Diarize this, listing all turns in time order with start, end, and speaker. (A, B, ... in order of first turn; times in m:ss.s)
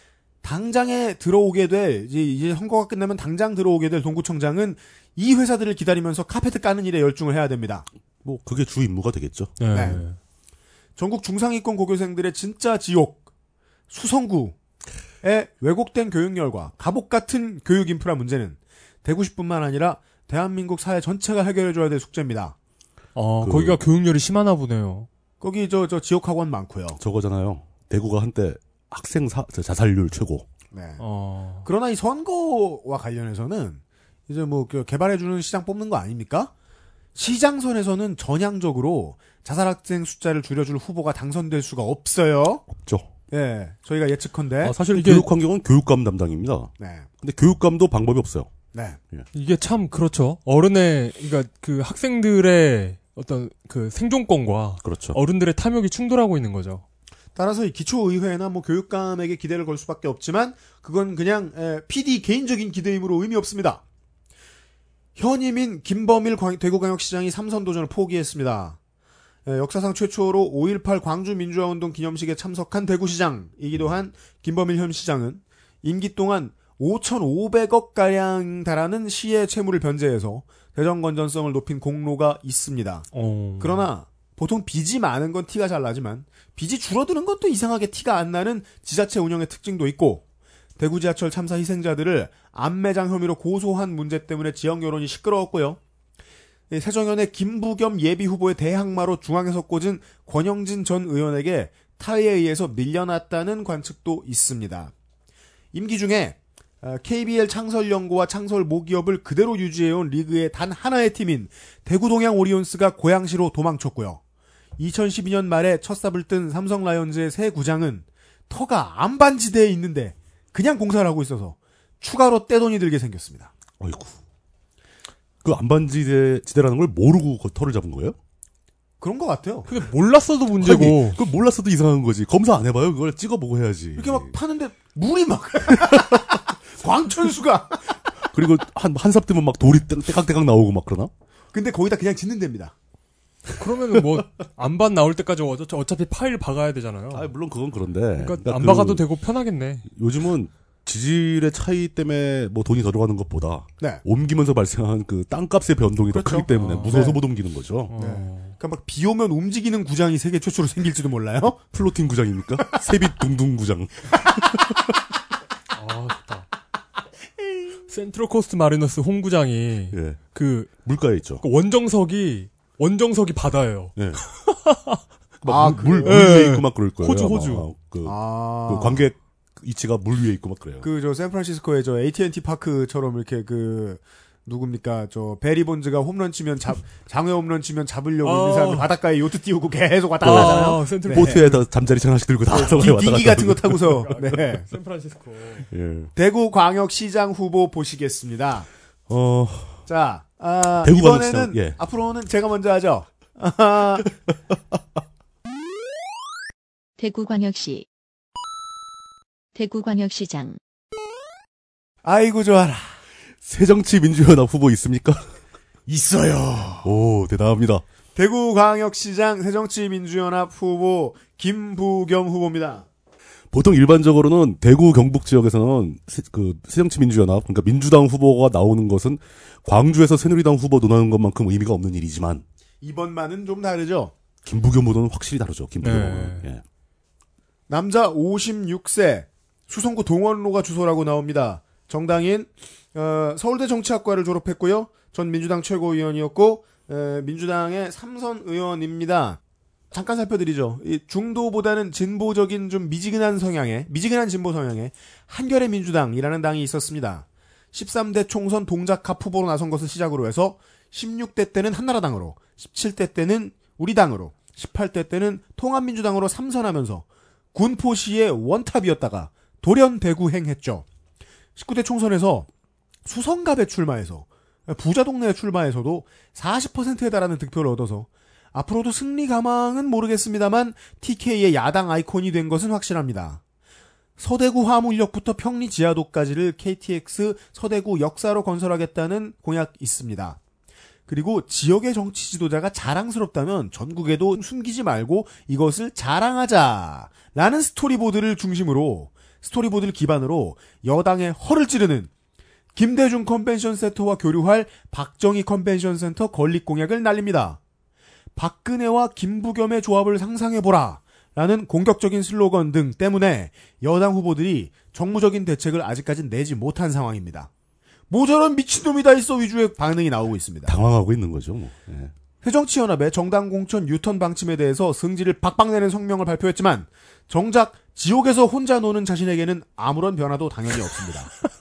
0:00.4-0:07.9 A
0:08.2-0:10.0 B
0:09.6-0:10.2 C
0:09.7-0:10.0 A
0:11.0-0:13.2 A
0:13.9-0:14.6 A
0:15.2-0:22.6 A
0:23.2-0:25.1 C
0:23.4-0:23.8 B
0:25.4-0:27.0 A
0:27.0-0:30.5 B
0:30.7-0:31.0 A
0:31.0-0:31.7 C
0:31.6-0:36.5 A
0:37.2-0:42.6 A
0:42.7-0:43.1 B
0:43.3-0:44.8 A
0:44.6-0:48.5 B
0:44.9-0:45.3 C
0:46.8-0:47.1 A
0:48.7-0:49.0 A
0:49.3-0:56.8 C
0:54.8-0:55.2 B
0:57.4-1:03.8 A
1:05.2-1:08.8 A
1:09.5-1:23.1 A
1:23.1-1:23.9 C
1:23.6-1:30.2 A
1:30.8-1:35.8 A
1:36.7-1:44.9 A
1:45.7-1:54.2 A
1:54.8-2:03.5 A
2:03.8-2:04.2 B
2:05.4-2:08.2 B
2:09.0-2:09.7 A
2:09.7-2:11.2 C
2:10.6-2:14.3 B
2:14.0-2:18.0 A
2:18.2-2:21.1 B
2:21.5-2:22.7 A
2:23.6-2:27.3 C
2:27.1-2:29.0 B
2:28.2-2:29.9 C
2:29.9-2:37.9 B
2:36.1-2:37.2 A
2:36.5-2:37.1 C
2:37.9-2:38.6 C
2:38.0-2:41.6 A
2:41.7-2:44.8 B
2:45.7-2:46.5 C
2:47.9-2:50.8 C
2:49.9-2:50.2 B
2:50.8-2:51.5 B
2:51.4-2:55.0 C
2:54.0-2:54.2 B
2:55.4-3:00.9 B
2:55.5-2:56.3 A
2:56.0-2:57.7 C
2:58.0-2:59.0 A
3:00.8-3:11.4 A
3:08.2-3:08.9 C
3:10.2-3:11.7 C
3:10.2-3:14.1 B
3:12.5-3:14.7 A
3:12.5-3:15.7 C
3:15.7-3:16.1 B
3:16.2-3:18.7 A
3:19.1-3:19.9 B
3:19.9-3:24.2 A
3:20.8-3:21.8 B
3:27.0-3:27.9 D
3:29.5-3:30.6 D
3:32.0-3:33.0 A
3:33.4-3:35.3 B
3:35.9-3:36.9 A
3:36.8-3:37.8 B
3:38.2-3:42.9 A
3:43.5-3:52.4 B
3:52.8-3:54.1 A
3:54.4-3:56.6 B
3:55.8-3:56.5 C
3:57.7-4:09.4 A
4:09.9-4:30.8 A
4:31.6-4:32.5 A
4:33.0-4:43.4 A
4:44.2-4:50.4 A
4:51.1-5:02.1 A
5:02.8-5:07.6 A
5:08.4-5:17.5 A
5:18.1-5:20.8 A
5:20.7-5:22.1 B
5:22.4-5:31.3 A